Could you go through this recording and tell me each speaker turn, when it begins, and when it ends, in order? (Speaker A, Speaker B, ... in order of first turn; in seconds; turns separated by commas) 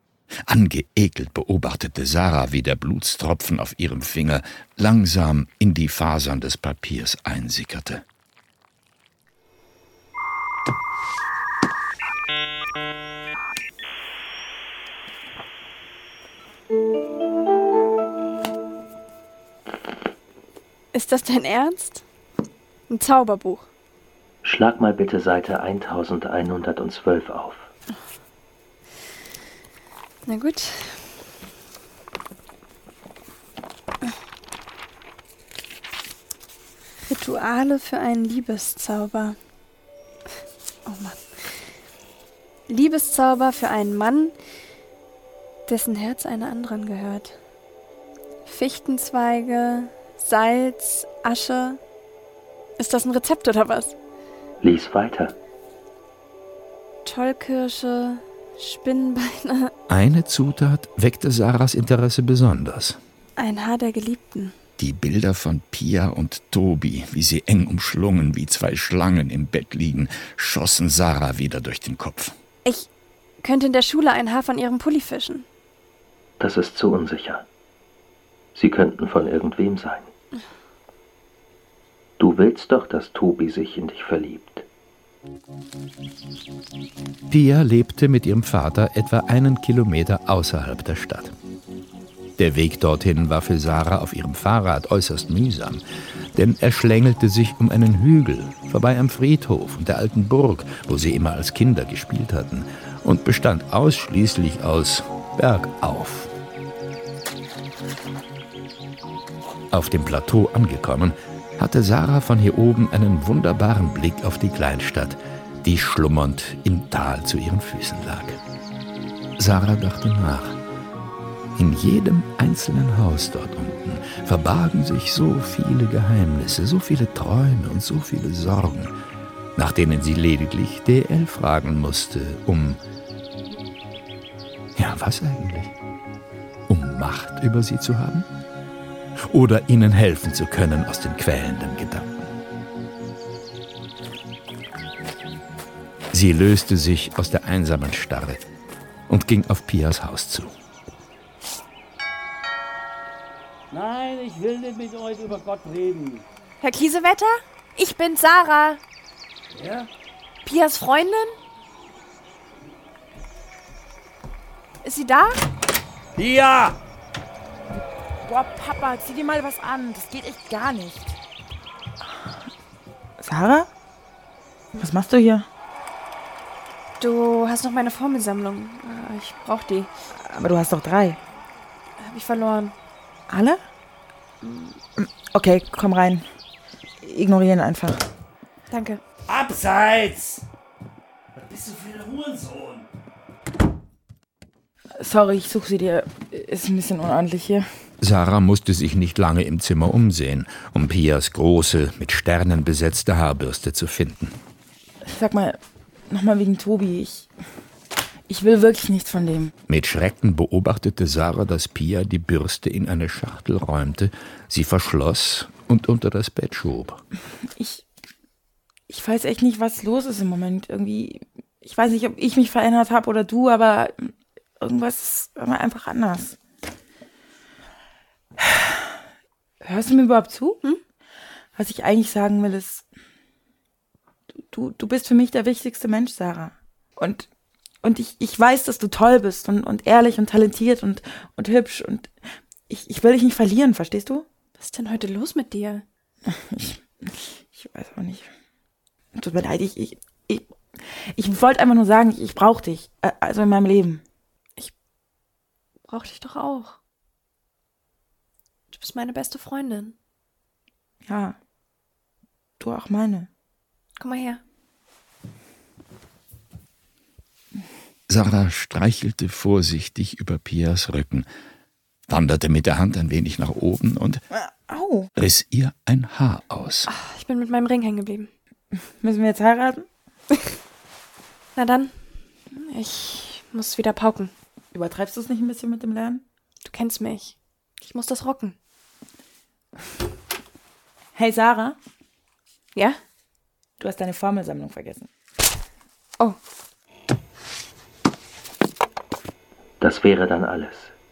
Speaker A: 0.5-8.0, Speaker B: 20.9-22.0, Speaker B: 22.9-23.7, Speaker C: 24.4-27.7, Speaker B: 30.2-31.1, Speaker B: 37.0-39.4, Speaker B: 40.9-41.5, Speaker B: 42.7-44.3, Speaker B: 45.6-47.4, Speaker B: 48.5-51.8, Speaker B: 52.8-53.9, Speaker C: 54.6-55.3, Speaker B: 57.0-59.7, Speaker A: 59.9-63.0, Speaker B: 63.4-64.5, Speaker A: 64.8-72.3, Speaker B: 73.4-75.5, Speaker C: 76.4-77.5, Speaker C: 78.5-80.1, Speaker C: 82.2-84.7, Speaker A: 87.3-91.3, Speaker A: 92.4-95.8, Speaker A: 96.3-106.3, Speaker A: 109.7-118.4, Speaker A: 119.4-120.6, Speaker A: 121.5-128.9, Speaker A: 129.6-132.8, Speaker A: 134.8-135.7, Speaker A: 136.7-138.3, Speaker A: 139.3-142.3, Speaker A: 146.1-148.4, Speaker A: 149.1-150.5, Speaker D: 153.7-156.2, Speaker B: 156.6-158.8, Speaker D: 159.5-159.9, Speaker B: 160.4-161.4, Speaker B: 164.8-165.4, Speaker D: 166.2-166.8, Speaker E: 168.2-171.2, Speaker E: 172.0-172.4, Speaker E: 173.2-173.7, Speaker E: 174.8-175.5, Speaker B: 177.0-179.9, Speaker E: 180.2-181.2, Speaker B: 182.0-182.7, Speaker E: 183.3-183.6, Speaker B: 184.4-184.8, Speaker E: 185.0-186.2, Speaker E: 187.0-188.0, Speaker B: 188.7-189.0, Speaker D: 189.3-190.4, Speaker D: 191.4-192.8, Speaker E: 195.0-197.6, Speaker A: 198.0-204.4, Speaker E: 205.1-205.6, Speaker E: 206.1-207.3, Speaker E: 208.3-209.5, Speaker A: 209.7-217.0, Speaker E: 217.6-217.8, Speaker E: 218.9-226.4, Speaker E: 228.4-229.0, Speaker E: 229.6-230.6, Speaker E: 231.5-232.9, Speaker E: 234.3-237.3, Speaker E: 237.8-242.1, Speaker E: 242.7-244.2, Speaker B: 244.6-245.8, Speaker E: 246.2-248.3, Speaker E: 249.2-254.0, Speaker B: 255.9-256.8, Speaker B: 258.7-259.9, Speaker E: 261.0-261.4, Speaker E: 262.6-263.3, Speaker B: 264.0-264.4, Speaker A: 268.1-271.2, Speaker A: 272.1-274.2, Speaker E: 274.3-275.1, Speaker A: 275.1-276.9, Speaker B: 276.9-278.3, Speaker E: 279.0-279.9, Speaker B: 281.6-281.9, Speaker B: 282.6-284.3, Speaker E: 284.7-286.2, Speaker B: 286.6-288.6, Speaker E: 291.1-291.8, Speaker B: 292.7-293.0, Speaker E: 293.8-295.1, Speaker C: 299.8-300.9